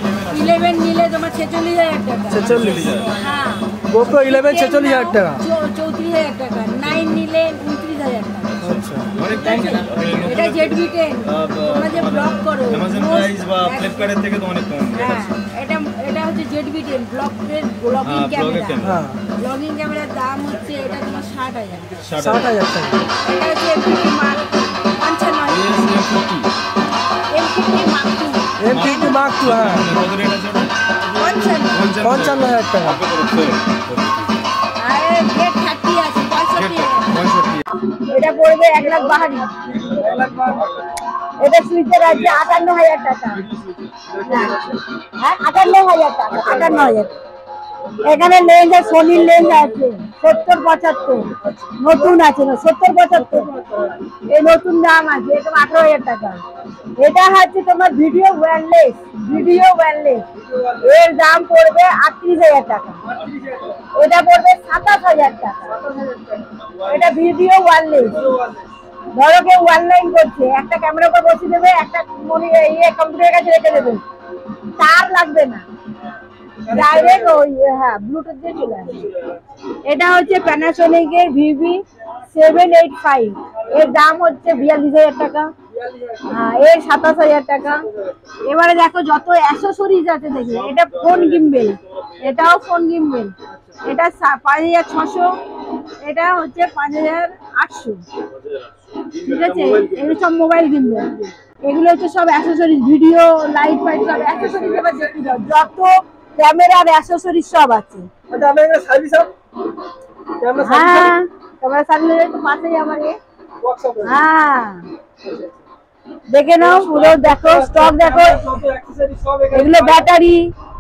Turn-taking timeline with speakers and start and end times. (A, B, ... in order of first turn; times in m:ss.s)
0:00.3-0:02.6 A
0:02.3-0:02.9 B
0:02.4-0:03.2 C
0:03.1-0:08.5 A
0:03.9-0:05.4 B
0:08.6-0:15.3 C
0:08.6-0:09.1 B
0:09.2-0:14.1 A
0:14.9-0:18.8 A
0:18.0-0:19.0 C
0:18.8-0:19.2 B
0:19.4-0:22.0 A
0:22.0-0:22.6 C
0:22.2-0:23.0 B
0:23.2-0:25.8 A
0:25.5-0:26.5 C
0:27.3-0:29.4 A
0:28.6-0:29.9 B
0:28.7-0:30.7 C
0:31.2-0:31.9 A
0:31.7-0:34.4 C
0:32.0-0:33.0 B
0:34.8-0:37.1 A
0:36.6-0:37.7 C
0:38.1-0:40.4 A
0:41.4-0:43.5 A
0:44.2-0:47.1 A
0:48.0-0:56.4 A
0:57.0-1:03.0 A
1:03.7-1:06.1 A
1:06.8-1:08.4 A
1:09.1-1:14.0 A
1:14.8-1:15.6 A
1:16.7-1:19.1 A
1:19.8-1:25.5 A
1:26.2-1:27.8 A
1:28.4-1:35.4 A
1:36.0-1:38.0 A
1:39.1-1:48.1 A
1:48.3-1:49.3 B
1:50.4-1:51.1 B
1:50.6-1:53.2 A
1:53.6-1:54.2 B
1:54.0-1:54.8 A
1:56.3-1:58.5 A
1:56.6-2:00.1 B
1:59.5-2:00.5 A